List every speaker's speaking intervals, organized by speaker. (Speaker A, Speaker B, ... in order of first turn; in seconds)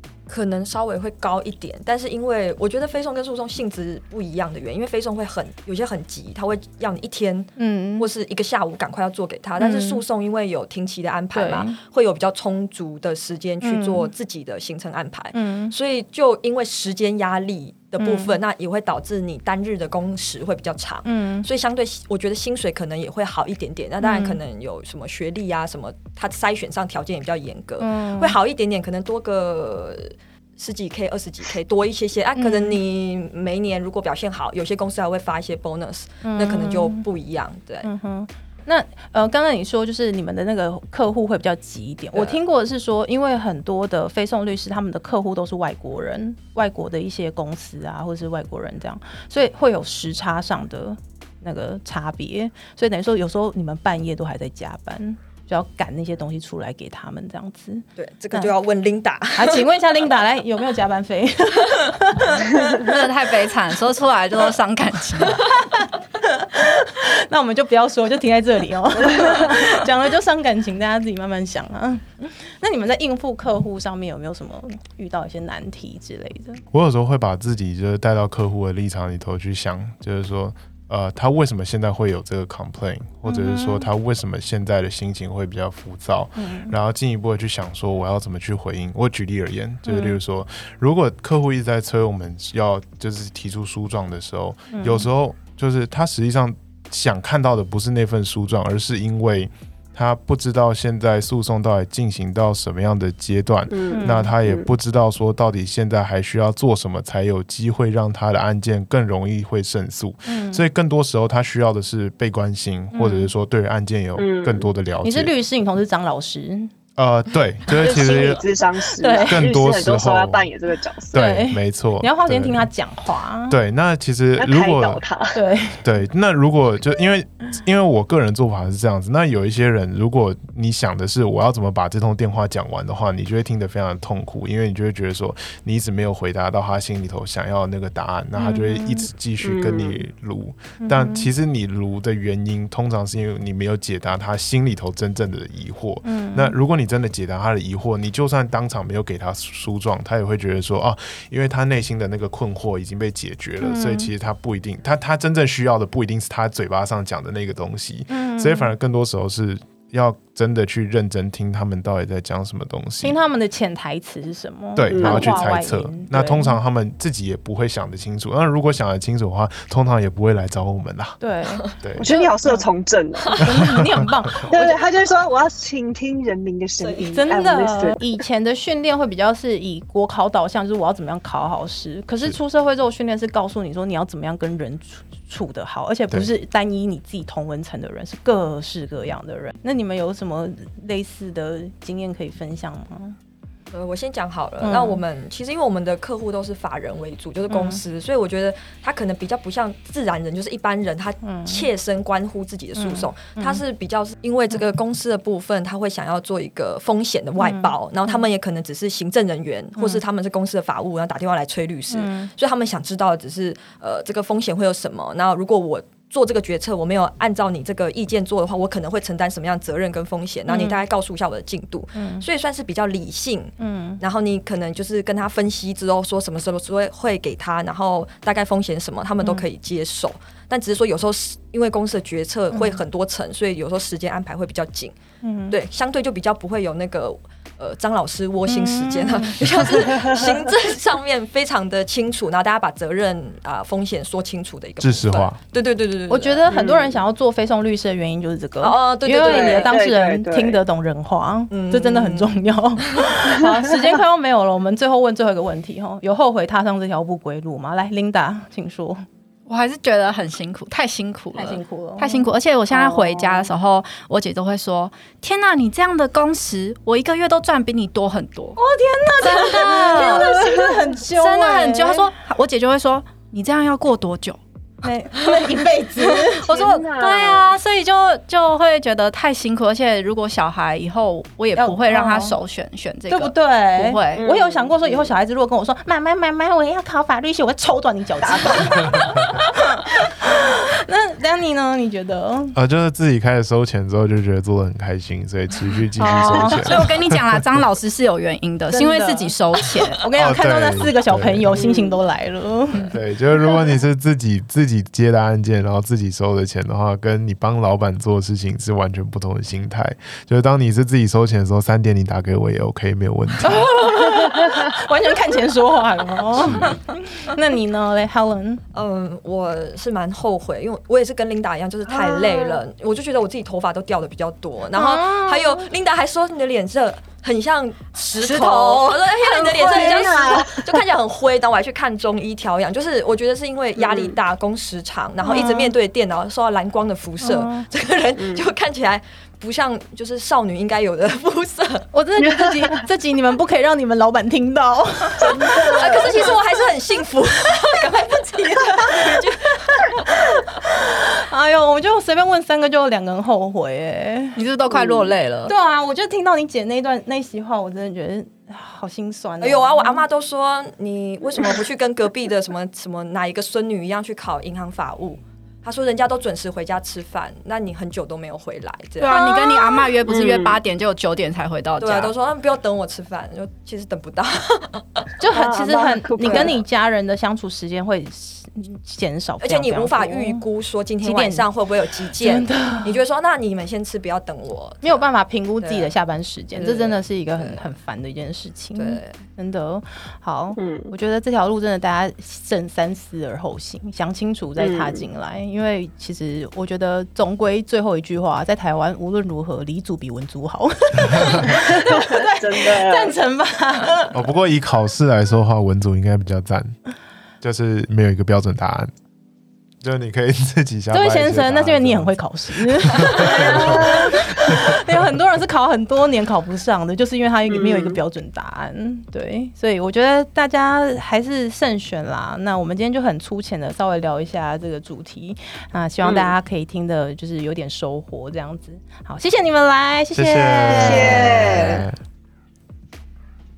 Speaker A: 0.3-37.9, 42.1-42.4, 58.0-59.6, 176.8-177.2, 193.7-234.9, 235.5-246.6, 248.6-249.7, 251.5-252.3, 318.7-341.9, 345.6-350.0, 359.4-369.3, 371.8-375.1, 376.2-376.5, 379.4-385.0, 385.6-385.9, 386.5-387.6, 388.8-389.2
Speaker B: 7.6-8.1, 9.6-10.0, 11.3-11.8, 13.6-14.1, 15.3-15.7, 18.0-18.4, 21.0-21.5, 24.0-24.4, 27.8-28.4, 32.4-32.8, 36.2-37.0, 37.8-58.5, 59.4-62.9, 65.3-76.6, 83.2-83.9, 86.3-86.7, 89.8-90.2, 94.7-95.1, 103.9-104.3, 110.2-110.7, 112.9-113.3, 115.0-116.7, 119.0-119.4, 121.1-123.5, 125.3-125.8, 138.3-139.1, 140.8-141.3, 146.0-146.5, 153.6-154.1, 158.1-158.7, 163.0-166.6, 171.2-172.7, 173.4-174.8, 177.1-193.2, 194.6-195.0, 197.5-197.8, 201.2-201.7, 202.8-203.6, 207.4-208.2, 209.8-210.0, 211.9-212.3, 220.5-220.8, 221.9-222.2, 223.6-224.0, 229.2-229.5, 232.5-232.8, 235.2-235.6, 238.4-239.5, 246.1-259.0, 261.3-262.2, 268.6-272.1, 274.8-276.4, 281.6-282.4, 283.1-292.5, 296.0-296.6, 298.7-299.3, 300.0-302.9, 313.4-318.6, 324.7-325.7, 335.2-335.7, 337.2-337.6, 341.9-346.3, 348.0-349.3, 349.8-354.4, 355.5-360.0, 375.2-380.4, 381.0-381.5, 382.2-383.0, 384.8-404.1, 410.9-431.6
Speaker C: 62.6-65.5, 259.5-268.6, 269.2-270.4, 271.1-274.4, 276.4-284.2, 296.1-300.0, 328.2-329.9, 354.4-355.5, 369.0-372.1
Speaker D: 76.7-115.3, 117.0-118.4, 119.2-120.5, 121.1-122.7, 123.5-125.0, 125.8-163.2, 164.8-171.2, 171.8-172.1, 173.7-174.0, 244.8-245.4, 292.5-297.6, 300.2-301.6, 302.9-313.8, 316.4-316.7, 404.1-406.7, 407.4-408.9, 409.8-414.8, 430.1-431.9
Speaker E: 103.7-104.7, 114.2-114.7, 117.7-121.2, 124.4-125.4, 139.4-140.0, 164.9-165.3, 172.0-173.4, 174.5-178.0, 239.8-240.3, 246.5-246.9, 249.2-250.6, 262.7-263.5, 269.7-270.8, 276.5-277.5, 284.1-285.1, 288.2-289.1, 301.5-302.0, 321.9-322.6, 329.6-330.8, 333.8-334.1, 338.2-338.5, 342.2-342.8, 345.2-346.3, 354.7-355.1, 370.1-370.6, 375.3-376.6, 390.6-390.9, 394.6-395.0, 401.5-403.1, 413.8-414.1, 417.5-418.0, 426.0-426.3, 430.7-431.8